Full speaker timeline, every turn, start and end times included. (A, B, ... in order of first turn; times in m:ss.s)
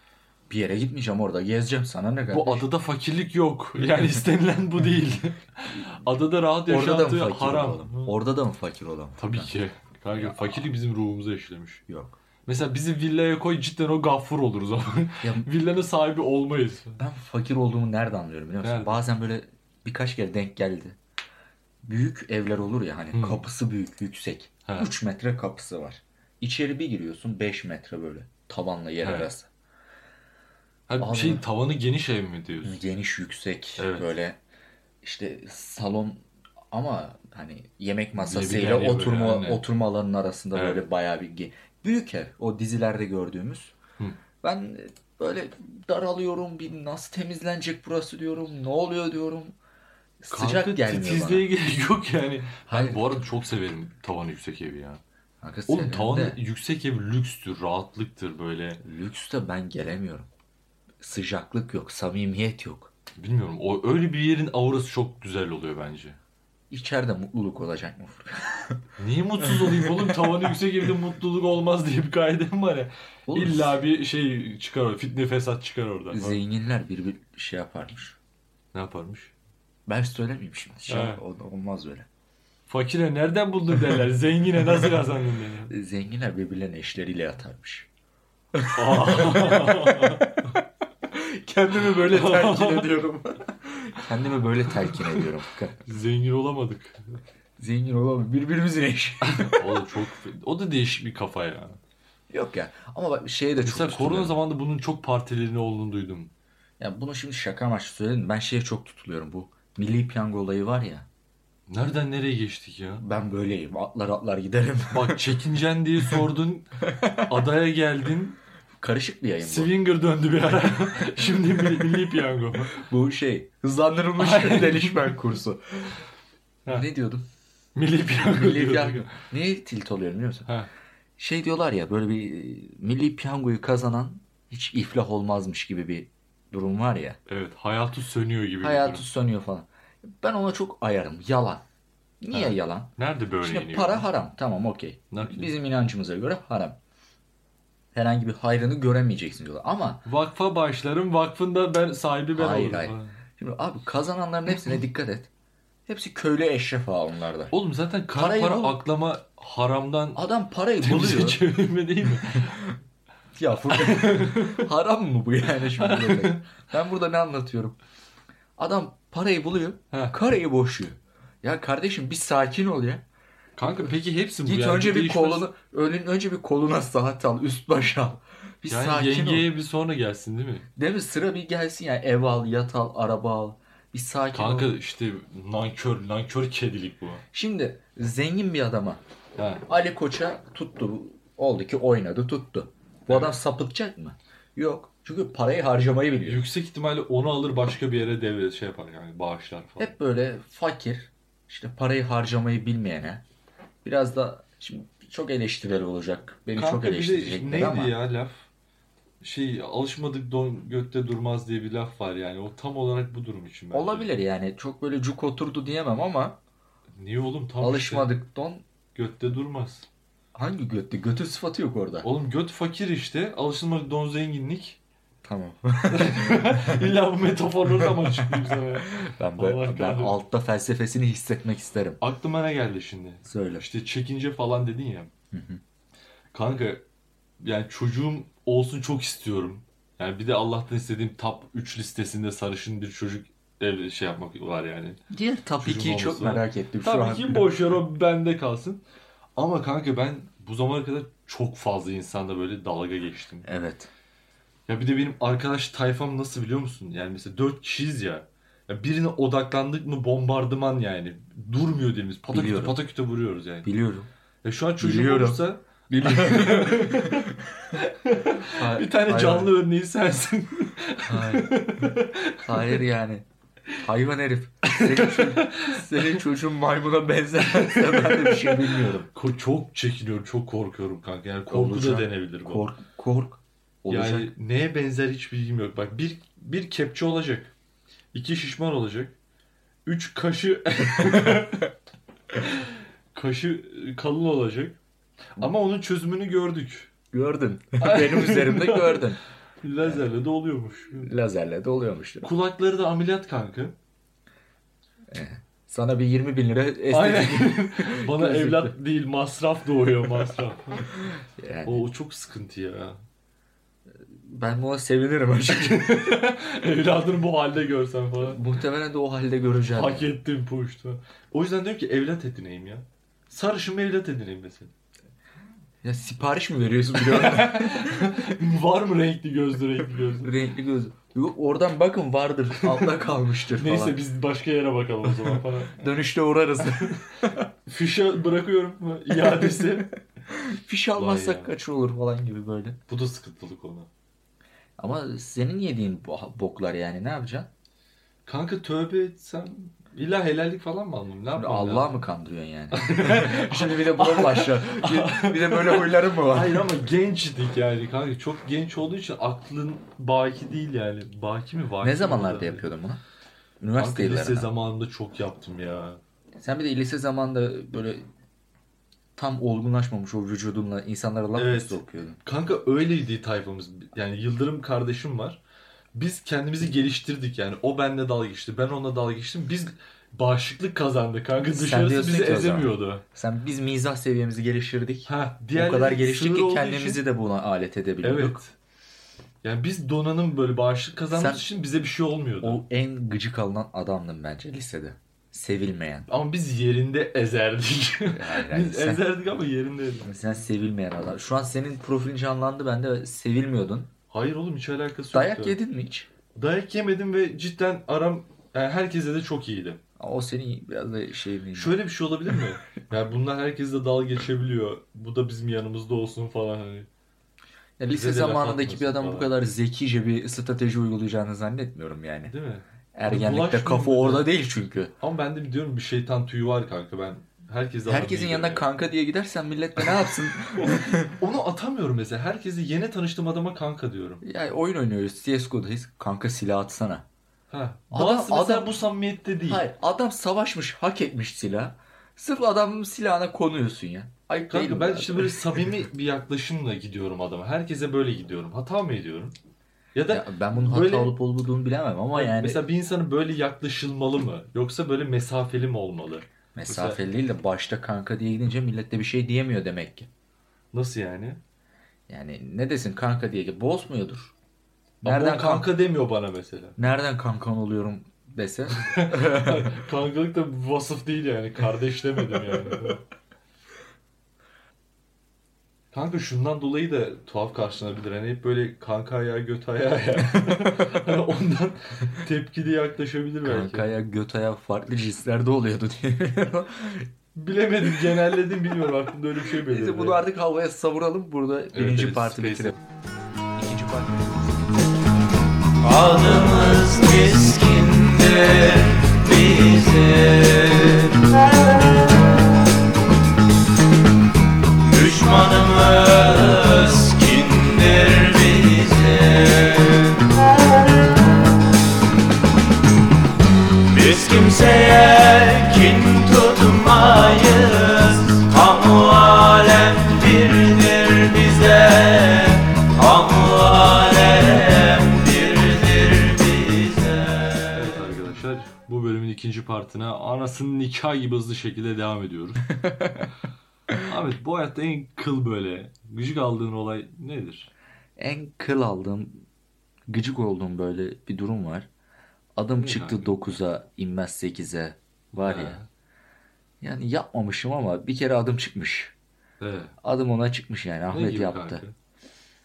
0:00.5-0:02.7 A
0:02.3-0:08.2 B
0:06.7-0:09.5 A
0:09.2-0:11.8 B
0:10.2-0:10.6 A
0:11.9-0:12.2 A
0:12.5-0:17.0 B
0:15.2-0:15.5 A
0:17.0-0:21.0 A
0:18.6-0:19.0 B
0:21.8-0:29.5 A
0:23.1-0:23.4 B
0:24.7-0:24.9 B
0:29.0-0:29.3 B
0:30.9-0:32.8 B
0:31.0-0:31.4 A
0:32.6-0:34.4 A
0:33.8-0:34.1 B
0:35.0-0:43.7 A
0:38.2-0:39.6 B
0:40.5-0:40.8 B
0:44.4-0:49.6 A
0:50.2-0:51.5 A
0:50.3-0:55.0 B
0:52.7-0:53.2 A
0:55.4-0:56.4 A
0:55.7-0:58.8 B
0:58.8-1:00.3 A
1:01.0-1:02.9 A
1:03.2-1:06.2 B
1:06.7-1:08.8 A
1:09.0-1:16.4 B
1:09.4-1:10.5 A
1:13.3-1:13.8 A
1:16.1-1:18.2 A
1:18.7-1:19.3 B
1:19.9-1:22.1 A
1:20.9-1:21.2 B
1:22.7-1:25.7 B
1:25.7-1:27.9 A
1:28.5-1:35.8 A
1:28.7-1:30.5 B
1:31.8-1:33.0 B
1:34.8-1:35.3 B
1:35.8-1:37.2 B
1:37.6-1:39.8 A
1:39.2-1:41.8 B
1:42.3-1:44.4 A
1:43.6-1:46.3 B
1:46.8-1:51.1 A
1:51.7-1:53.0 B
1:53.0-1:55.3 A
1:54.9-1:58.4 B
1:56.9-1:57.3 A
1:58.8-1:59.7 A
1:59.4-2:02.8 B
2:01.6-2:02.0 A
2:02.7-2:06.0 A
2:04.2-2:05.2 B
2:06.7-2:07.2 A
2:07.8-2:09.2 B
2:08.2-2:10.5 A
2:11.2-2:17.2 A
2:17.3-2:19.0 B
2:18.6-2:21.6 A
2:22.2-2:26.8 A
2:22.3-2:24.1 B
2:25.1-2:25.5 B
2:27.9-2:30.0 A
2:30.0-2:33.2 B
2:32.4-2:35.3 A
2:35.9-2:37.5 A
2:37.5-2:40.2 B
2:38.2-2:38.8 A
2:40.2-2:41.4 A
2:40.8-2:42.7 B
2:43.4-2:47.8 A
2:43.7-2:44.7 B
2:45.8-2:46.4 B
2:48.6-2:53.0 A
2:49.9-2:50.2 B
2:53.6-2:55.5 B
2:54.4-2:59.5 A
2:58.7-3:00.7 B
3:00.8-3:04.7 A
3:04.3-3:07.2 B
3:07.3-3:09.0 A
3:09.4-3:09.6 B
3:09.7-3:16.4 A
3:13.1-3:13.4 B
3:16.2-3:19.9 B
3:19.8-3:23.2 A
3:23.8-3:28.0 A
3:26.6-3:28.5 B
3:29.2-3:34.1 B
3:33.7-3:36.4 A
3:37.0-3:38.1 B
3:37.6-3:38.6 A
3:39.0-3:39.9 B
3:40.3-3:42.1 A
3:42.0-3:44.8 B
3:45.2-3:46.8 A
3:45.9-3:50.2 B
3:47.8-3:52.0 A
3:52.0-3:55.1 B
3:53.2-3:53.7 A
3:55.3-3:55.6 A
3:56.3-3:56.8 B
3:57.4-4:05.0 B
4:05.1-4:07.5 A
4:05.6-4:08.8 B
4:09.4-4:13.5 B
4:13.4-4:13.9 A
4:14.7-4:23.7 B
4:22.3-4:22.8 A
4:23.6-4:24.1 A
4:24.4-4:32.8 B
4:24.8-4:27.7 A
4:28.5-4:29.6 A
4:31.1-4:33.2 A
4:33.8-4:39.1 A
4:34.6-4:36.2 B
4:37.5-4:42.7 B
4:41.5-4:44.3 A
4:43.9-4:47.5 B
4:48.1-4:49.2 B
4:49.9-4:51.7 B
4:51.1-4:51.4 A
4:52.4-4:54.8 B
4:55.4-4:56.9 B
4:57.1-4:59.2 A
4:57.8-4:59.1 B
4:59.6-5:01.1 B
5:01.0-5:02.3 A
5:02.2-5:03.8 B
5:05.1-5:08.7 A
5:06.9-5:10.9 B
5:11.2-5:11.9 A
5:11.6-5:13.0 B
5:13.9-5:16.3 A
5:15.6-5:18.4 B
5:18.2-5:20.1 A
5:19.7-5:24.7 B
5:25.8-5:28.1 A
5:27.0-5:30.3 B
5:30.2-5:34.0 A
5:32.6-5:33.0 B
5:33.5-5:35.8 B
5:35.3-5:37.5 A
5:37.7-5:39.9 B
5:39.2-5:42.8 A
5:41.0-5:41.5 B
5:42.9-5:43.9 B
5:44.8-5:47.5 A
5:48.3-5:52.0 B
5:51.3-5:56.7 A
5:52.7-6:02.7 B
6:01.8-6:03.0 A
6:03.6-6:04.5 A
6:03.8-6:06.0 B
6:06.4-6:08.0 A
6:09.2-6:12.2 A
6:11.4-6:15.4 B
6:16.0-6:23.0 B
6:21.4-6:28.4 A
6:25.1-6:27.0 B
6:28.0-6:28.5 B
6:29.4-6:32.6 B
6:31.1-6:31.4 A
6:32.4-6:36.1 A
6:36.1-6:40.1 B
6:38.1-6:39.1 A
6:40.0-6:43.9 A
6:44.1-6:45.6 B
6:45.1-6:46.1 A
6:46.4-6:49.8 B
6:50.0-6:51.8 A
6:51.5-6:56.9 B
6:57.8-7:02.3 A
6:57.9-6:59.3 B
7:02.3-7:04.3 B
7:03.0-7:04.9 A
7:05.0-7:08.7 B
7:07.9-7:11.2 A
7:09.8-7:14.2 B
7:14.2-7:17.1 A
7:17.5-7:19.6 B
7:17.9-7:18.7 A
7:19.5-7:25.7 A
7:24.5-7:29.4 B
7:29.9-7:31.2 B
7:30.1-7:32.6 A
7:32.1-7:37.0 B
7:36.6-7:40.1 A
7:40.7-7:41.4 B
7:42.1-7:44.3 A
7:45.0-7:45.7 A
7:45.0-7:46.8 B
7:46.8-7:49.8 A
7:48.7-7:53.0 B
7:55.9-8:03.9 B
8:03.4-8:07.1 A
8:07.4-8:10.2 B
8:09.7-8:12.8 A
8:11.7-8:12.8 B
8:13.6-8:14.8 A
8:15.8-8:21.3 C
8:24.8-8:30.2 C
8:33.9-8:48.0 C
8:47.7-8:52.7 B
8:52.8-8:53.3 A
8:54.0-8:57.7 B
8:58.2-8:59.4 A
9:00.1-9:01.9 A
9:02.6-9:05.8 A
9:02.8-9:03.3 B
9:05.3-9:05.9 B
9:06.8-9:09.1 A
9:09.6-9:10.0 B
9:10.0-9:11.8 A
9:11.1-9:11.9 B